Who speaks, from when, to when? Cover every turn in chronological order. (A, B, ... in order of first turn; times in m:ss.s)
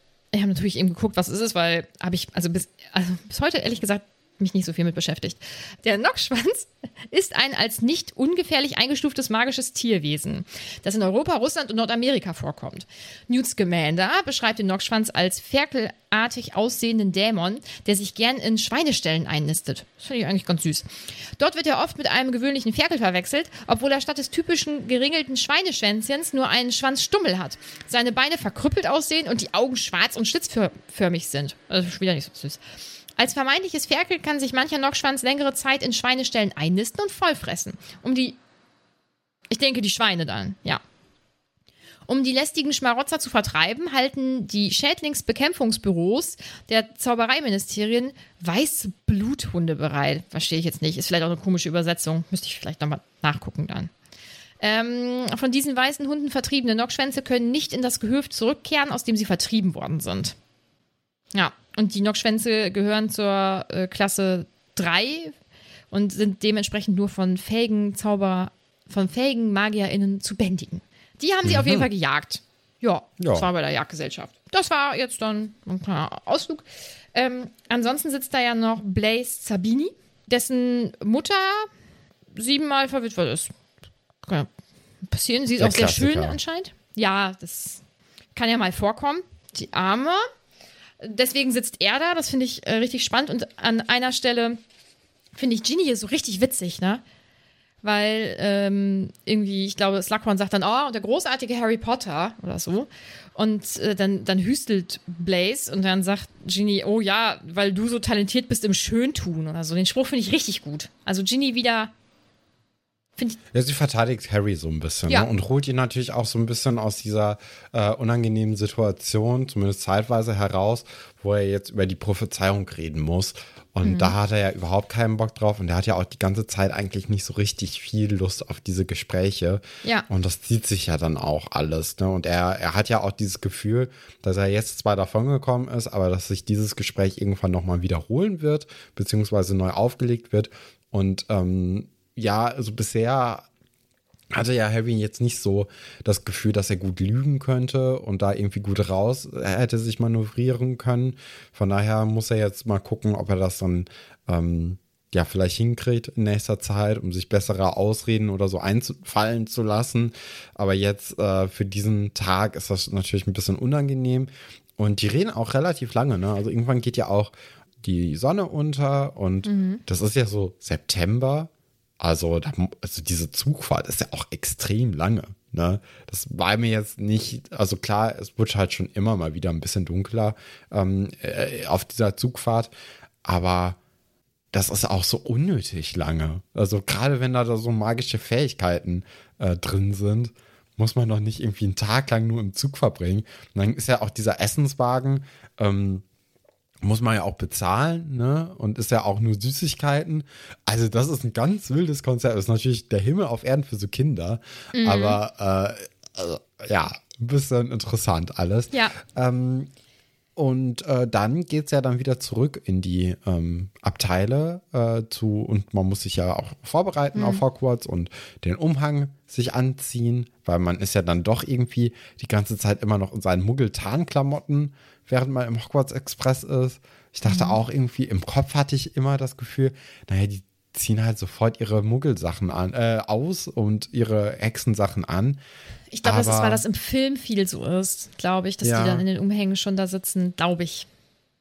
0:00.3-0:32.6 A
0:33.2-0:38.4 A
0:39.5-0:40.8 A
0:42.1-0:53.9 A
0:54.6-1:00.4 A
1:01.4-1:05.3 A
1:05.9-1:21.7 A
1:11.4-1:11.9 B
1:13.2-1:13.5 B
1:22.4-1:23.5 A
1:24.2-1:24.5 A
1:25.1-1:27.8 A
1:25.6-1:26.4 B
1:28.4-1:30.2 A
1:31.0-1:34.6 A
1:35.4-1:37.0 A
1:37.8-1:51.9 A
1:53.5-2:23.5 B
2:03.8-2:04.1 A
2:24.3-3:02.7 B
2:49.4-2:49.8 A
3:03.2-3:03.8 B
3:04.5-3:16.0 B
3:16.8-3:29.7 B
3:24.7-3:25.2 A
3:30.4-3:55.4 B
3:37.2-3:37.4 A
3:47.2-3:47.6 A
3:55.9-4:00.9 A
3:56.0-3:56.6 B
3:58.6-3:59.0 B